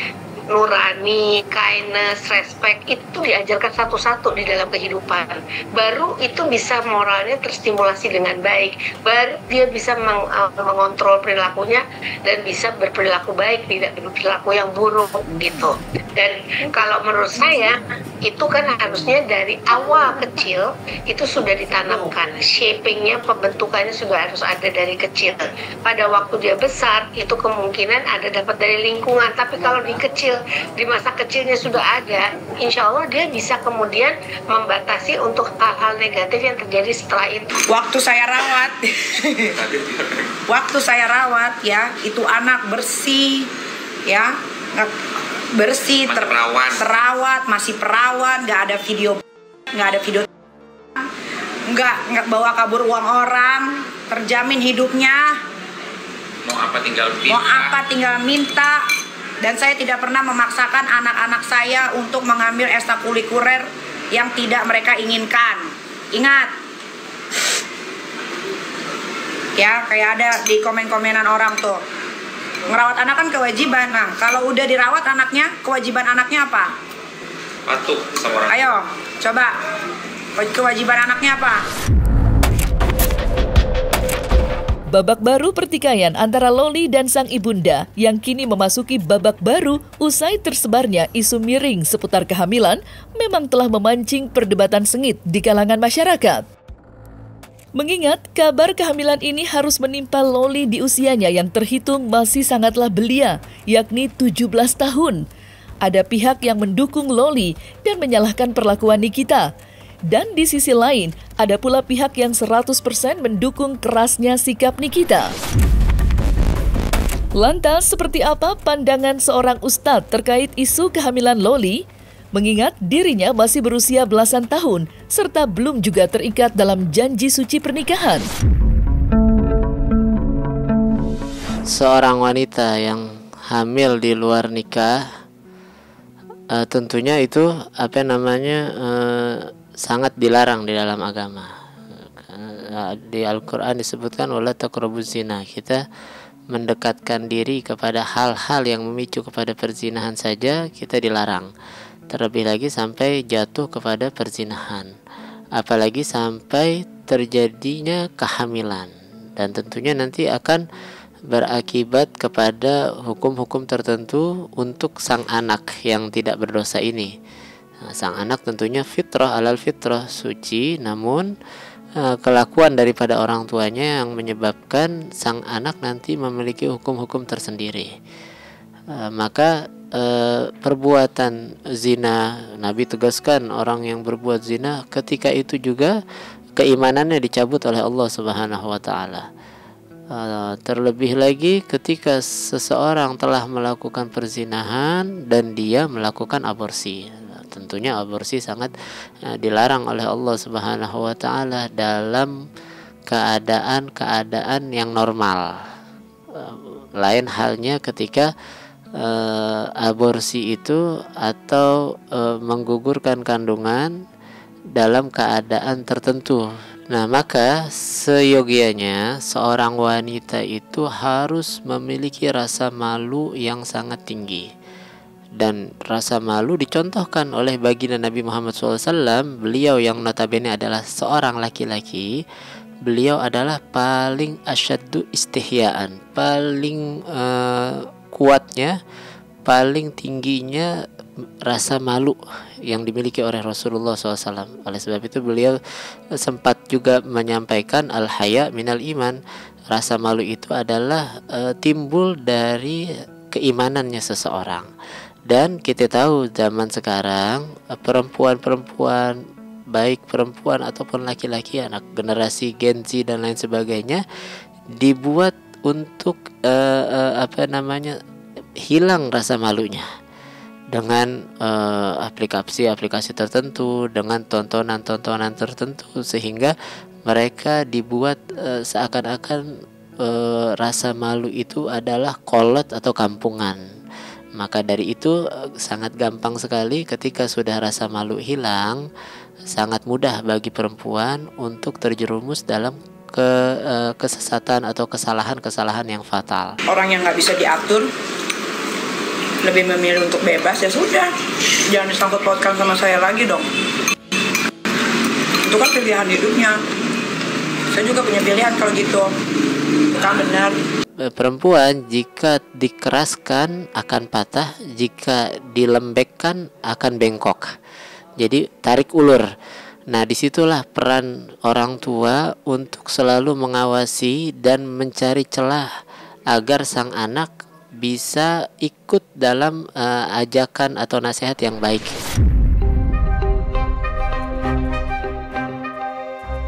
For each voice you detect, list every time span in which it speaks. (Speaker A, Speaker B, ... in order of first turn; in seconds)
Speaker A: 0.5-17.8, 18.3-37.5
Speaker B: 37.7-39.5, 40.5-43.5, 44.1-44.9, 45.5-49.2, 49.7-50.2, 51.7-55.3, 57.3-58.8, 59.4-66.5, 69.6-71.8, 72.7-76.7, 78.5-79.5, 80.4-81.6, 296.7-297.9, 299.4-301.1, 301.7-303.4, 305.5-306.5, 307.7-309.1, 310.0-310.5
Speaker C: 39.7-40.1, 46.1-46.8, 56.4-57.8, 77.7-78.6
Speaker D: 84.9-96.5, 97.7-105.2, 105.8-109.5, 110.1-115.3, 117.3-121.8, 122.3-128.2
Speaker E: 131.7-135.0, 136.5-145.8, 146.5-151.5, 152.1-154.9, 155.6-160.6, 161.3-167.1, 167.8-171.3, 172.0-177.9, 178.9-185.9, 186.6-189.2, 190.1-198.7, 199.3-202.3, 203.1-205.5, 206.3-208.3, 209.0-213.9, 214.7-224.4, 225.3-232.1, 232.8-238.7, 239.4-240.7, 241.4-245.6, 246.2-249.2, 249.7-252.8, 253.3-254.7, 255.3-259.1, 259.7-264.0, 264.8-267.9, 268.6-269.8, 270.7-276.5, 277.1-279.4, 280.0-283.6, 284.4-288.8, 289.5-296.5, 311.0-317.5, 318.2-319.2, 319.9-325.7, 326.3-327.3, 327.8-331.9